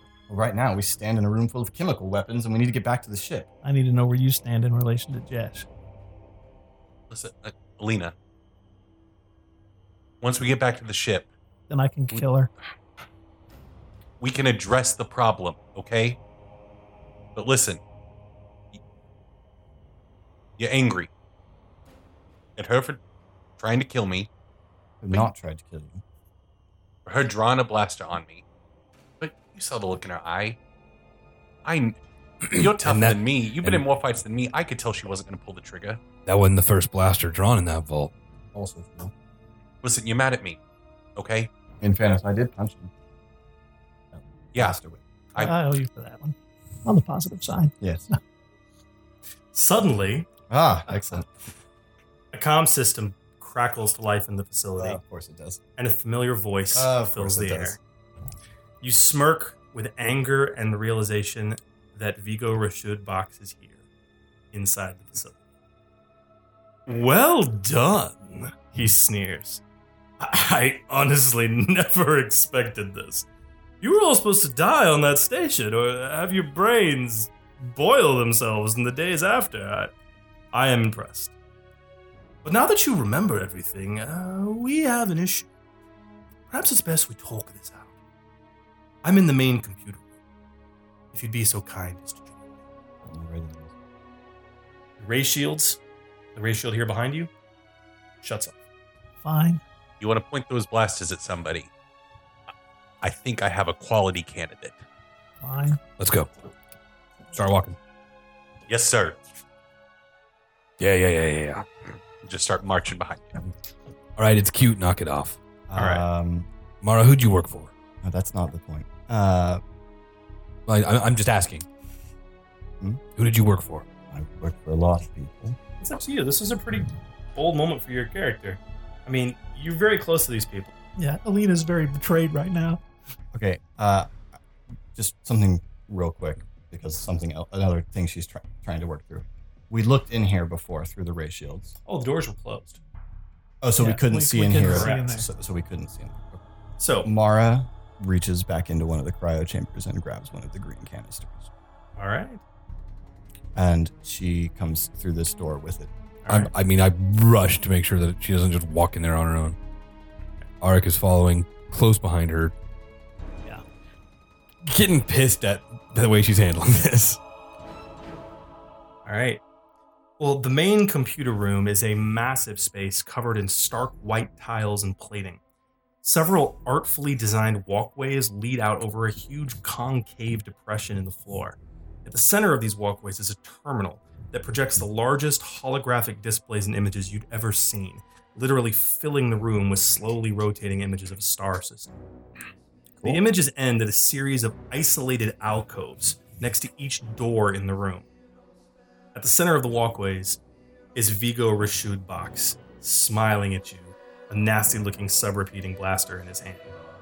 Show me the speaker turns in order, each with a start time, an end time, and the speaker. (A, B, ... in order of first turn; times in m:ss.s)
0:00.3-0:03.5 A
0:03.6-0:05.7 B
0:07.1-0:08.1 C
0:10.2-0:11.3 C
0:11.7-0:12.5 B
0:14.2-0:16.2 C
0:17.3-0:17.8 C
0:20.6-0:21.1 C
0:22.6-0:23.0 C
0:23.6-0:24.3 C
0:25.0-0:26.0 A
0:27.0-0:28.4 C
0:29.2-0:30.6 C
0:31.6-0:32.0 C
0:32.4-0:33.8 D
0:32.5-0:36.0 C
0:36.2-0:38.1 D
0:38.5-0:39.1 A
0:39.8-0:40.6 C
0:41.2-0:41.5 C
0:41.8-0:42.9 A
0:44.1-0:45.0 A
0:45.4-0:47.7 B
0:47.8-0:48.1 A
0:49.5-0:50.3 E
0:50.5-0:51.3 A
0:52.3-0:55.0 E
0:54.8-0:55.6 A
0:55.8-0:57.8 E
0:56.7-0:57.8 A
0:58.8-1:03.8 E
1:04.5-1:05.3 E
1:06.9-1:09.6 E
1:10.2-1:13.2 E
1:13.8-1:19.9 E
1:20.5-1:21.3 E
1:22.4-1:25.5 E
1:26.5-1:27.9 E
1:29.0-1:30.0 E
1:31.1-1:32.4 E
1:33.0-1:33.7 A
1:35.0-1:35.8 E
1:36.3-1:37.3 E
1:38.2-1:38.5 E
1:39.2-1:39.6 B
1:40.0-1:41.7 C
1:43.0-1:44.8 C
1:45.4-1:45.8 B
1:46.0-1:46.3 D
1:47.3-1:47.8 D
1:48.7-1:49.2 C
1:50.8-1:51.7 D
1:52.2-1:53.4 C
1:54.2-1:55.4 D
1:55.7-1:56.5 A
1:55.8-1:56.0 E
1:56.8-1:57.7 D
1:58.0-1:59.6 A
2:00.7-2:01.6 D
2:03.2-2:03.8 D
2:04.1-2:05.6 A
2:05.8-2:10.7 E
2:11.0-2:12.8 B
2:13.3-2:14.3 A
2:14.9-2:21.7 A
2:21.8-2:22.8 E
2:23.6-2:26.4 A
2:23.8-2:25.3 B
2:24.6-2:25.0 E
2:26.8-2:27.1 E
2:27.0-2:31.5 A
2:32.0-2:32.4 E
2:33.5-2:35.9 A
2:36.3-2:39.6 D
2:40.6-2:42.5 D
2:44.6-2:47.2 D
2:49.0-2:49.4 E
2:50.2-2:55.4 E
2:56.0-3:11.9 E
3:13.0-3:18.0 E
3:19.1-3:20.4 E
3:20.9-3:26.7 E